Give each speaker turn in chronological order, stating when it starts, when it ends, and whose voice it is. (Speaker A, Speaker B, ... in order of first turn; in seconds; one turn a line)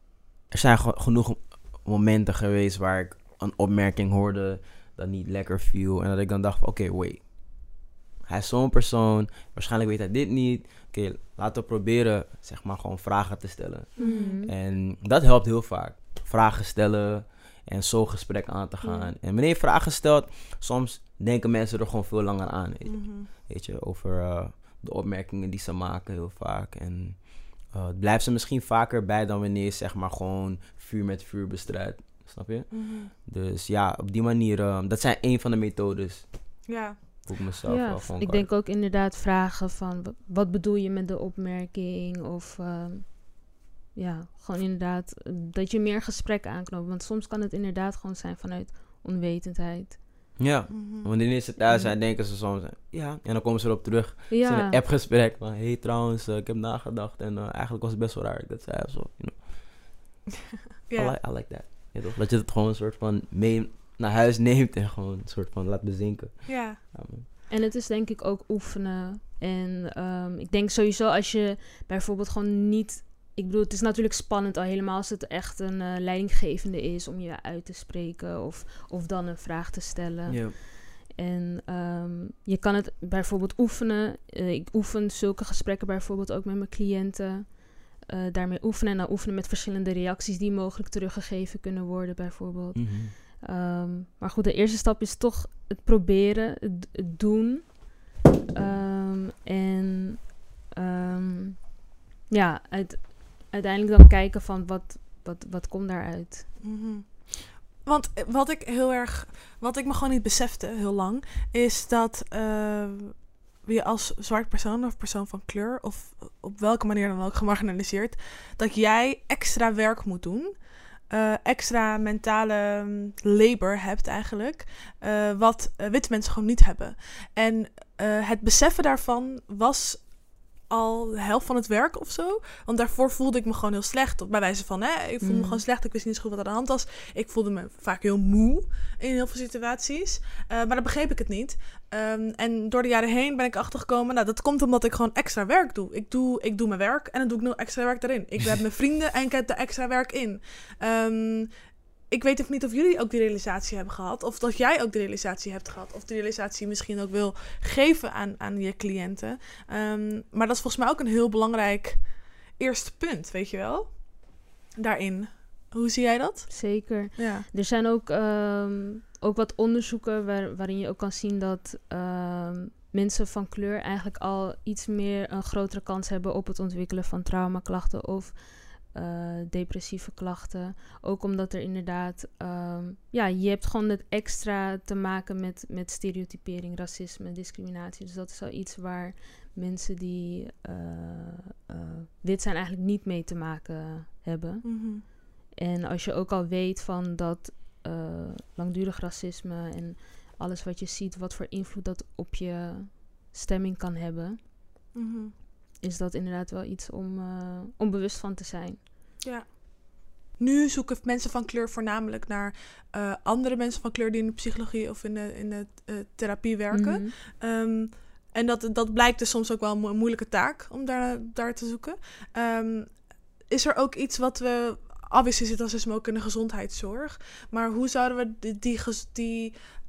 Speaker A: 0.5-36.7
Speaker B: 14.0-14.4
Speaker C: 14.0-14.5
Speaker C: 18.8-19.1
Speaker B: 22.9-23.3
Speaker B: 32.7-33.1
Speaker B: 36.7-37.0
Speaker A: 37.2-38.5
Speaker C: 37.7-50.0
Speaker A: 50.4-59.9
Speaker B: 50.7-51.1
Speaker C: 51.6-51.9
Speaker C: 54.3-54.8
Speaker B: 60.9-61.1
Speaker A: 61.0-67.3
Speaker B: 66.5-66.8
Speaker C: 67.5-98.0
Speaker A: 80.3-80.6
Speaker A: 92.8-93.1
Speaker C: 98.5-106.5
Speaker B: 106.6-151.5
Speaker C: 135.2-135.6
Speaker B: 152.1-167.5
Speaker C: 166.5-204.5
Speaker B: 194.6-195.0
Speaker B: 204.9-205.3
Speaker C: 205.8-208.8
Speaker B: 209.2-229.6
Speaker C: 216.7-217.1